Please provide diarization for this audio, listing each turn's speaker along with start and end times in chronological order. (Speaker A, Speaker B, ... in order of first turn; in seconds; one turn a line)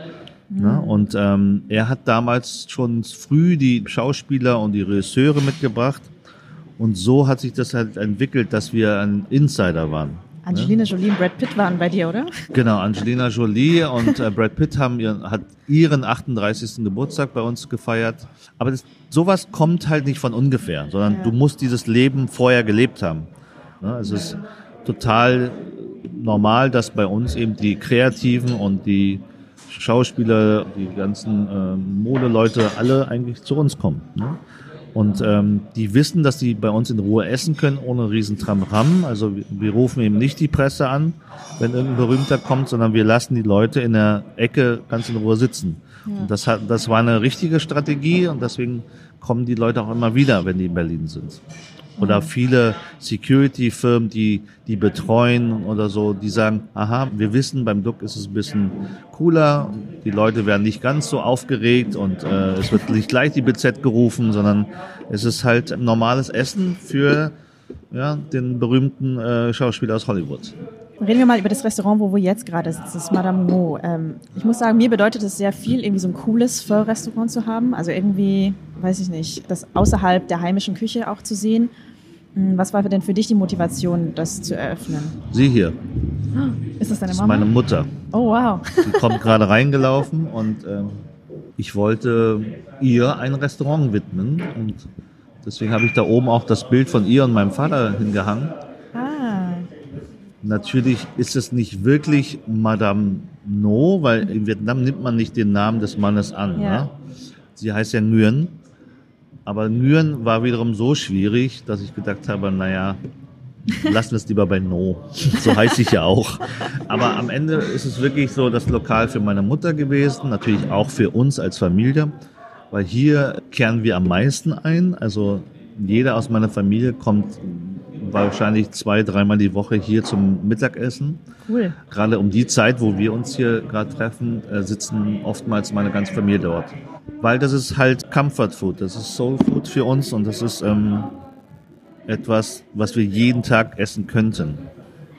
Speaker A: 0.5-1.0
Speaker B: 0.6-6.1
Speaker B: 6.8-10.8
Speaker A: 10.5-12.3
Speaker B: 12.5-23.3
Speaker A: 21.1-21.4
Speaker B: 23.8-34.4
Speaker A: 24.1-24.4
Speaker B: 34.9-51.4
Speaker A: 46.1-46.3
Speaker A: 52.0-52.3
Speaker B: 52.0-67.3
Speaker B: 67.9-70.5
Speaker A: 71.0-81.7
Speaker A: 82.4-85.2
Speaker B: 85.3-85.8
Speaker A: 86.3-87.5
Speaker B: 87.1-87.9
Speaker A: 88.1-89.2
Speaker B: 88.8-94.9
Speaker B: 95.4-98.5
Speaker A: 99.0-99.7
Speaker B: 100.4-107.0
Speaker A: 106.6-106.9
Speaker B: 107.6-108.6
Speaker B: 109.5-113.0
Speaker B: 113.8-122.1
Speaker B: 122.7-131.2
Speaker A: 131.5-131.8
Speaker B: 131.9-141.2
Speaker B: 142.1-144.7